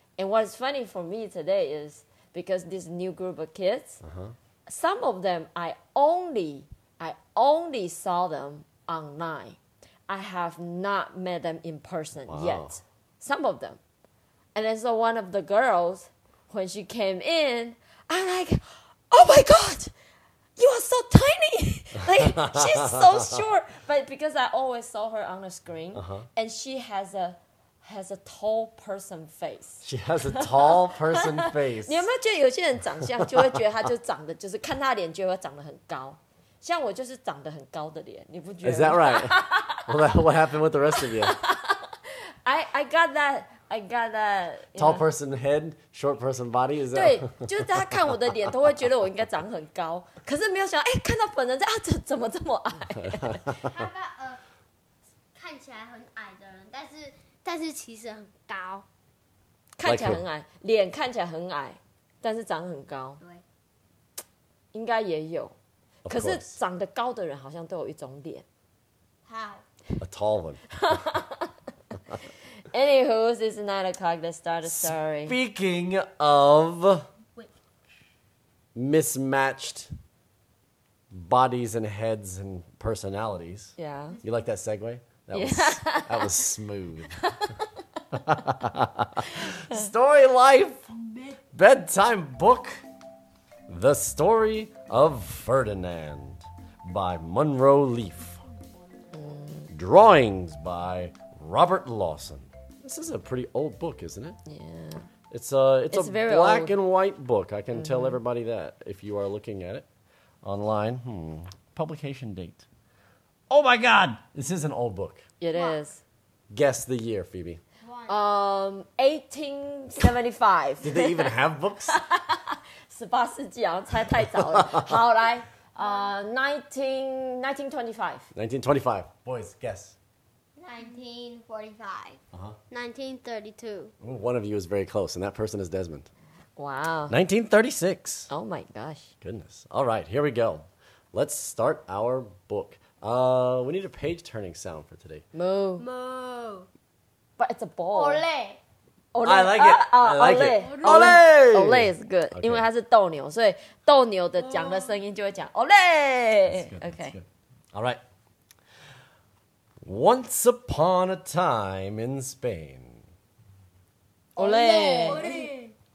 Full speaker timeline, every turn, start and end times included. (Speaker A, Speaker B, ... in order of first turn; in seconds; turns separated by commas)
Speaker A: 0.2-4.0, Speaker B: 4.0-4.4, Speaker A: 4.7-13.8, Speaker B: 12.3-12.8, Speaker A: 14.6-19.9, Speaker A: 20.6-39.9, Speaker B: 22.1-23.4, Speaker B: 25.9-26.3, Speaker B: 29.8-32.1, Speaker B: 33.0-33.6, Speaker B: 38.6-41.4, Speaker A: 41.0-45.0, Speaker B: 44.8-48.0, Speaker A: 46.9-53.5, Speaker B: 53.0-53.9, Speaker C: 53.6-54.4, Speaker C: 55.3-58.9, Speaker A: 59.8-63.2, Speaker B: 59.9-60.2, Speaker A: 64.7-65.5, Speaker B: 66.0-66.6, Speaker A: 66.1-68.5, Speaker C: 69.3-69.6, Speaker B: 70.0-71.0, Speaker A: 70.7-71.5, Speaker A: 72.7-75.4, Speaker B: 74.7-77.1, Speaker B: 78.8-79.9, Speaker B: 81.1-87.3, Speaker A: 83.8-84.2, Speaker A: 85.3-86.5, Speaker A: 87.2-87.6, Speaker B: 88.1-90.9, Speaker A: 89.4-89.8, Speaker C: 91.1-91.4, Speaker B: 91.5-92.8, Speaker B: 93.7-98.4, Speaker A: 99.1-99.7, Speaker B: 99.7-104.4, Speaker A: 104.5-105.1, Speaker B: 105.3-109.9, Speaker A: 105.9-106.8, Speaker A: 107.7-108.2, Speaker B: 110.4-112.7, Speaker B: 113.5-115.2, Speaker A: 115.4-116.0, Speaker C: 115.5-115.8, Speaker B: 116.5-117.6, Speaker C: 117.8-118.2, Speaker A: 118.1-121.3, Speaker B: 120.8-122.0, Speaker A: 121.9-128.3, Speaker B: 124.2-125.0, Speaker C: 125.8-126.1, Speaker B: 128.3-130.0, Speaker C: 130.6-132.2, Speaker B: 132.3-132.6, Speaker C: 132.7-133.9, Speaker B: 134.0-136.1, Speaker A: 136.6-137.2, Speaker B: 137.1-138.3, Speaker A: 138.3-139.1, Speaker B: 139.2-145.2, Speaker A: 145.3-145.9, Speaker C: 145.8-146.7, Speaker A: 147.4-148.2, Speaker C: 147.9-148.6, Speaker A: 149.1-157.2, Speaker B: 149.2-152.7, Speaker C: 150.4-151.2, Speaker C: 154.4-155.0, Speaker B: 156.5-158.0, Speaker B: 159.8-163.1, Speaker A: 164.4-165.5, Speaker C: 164.4-165.7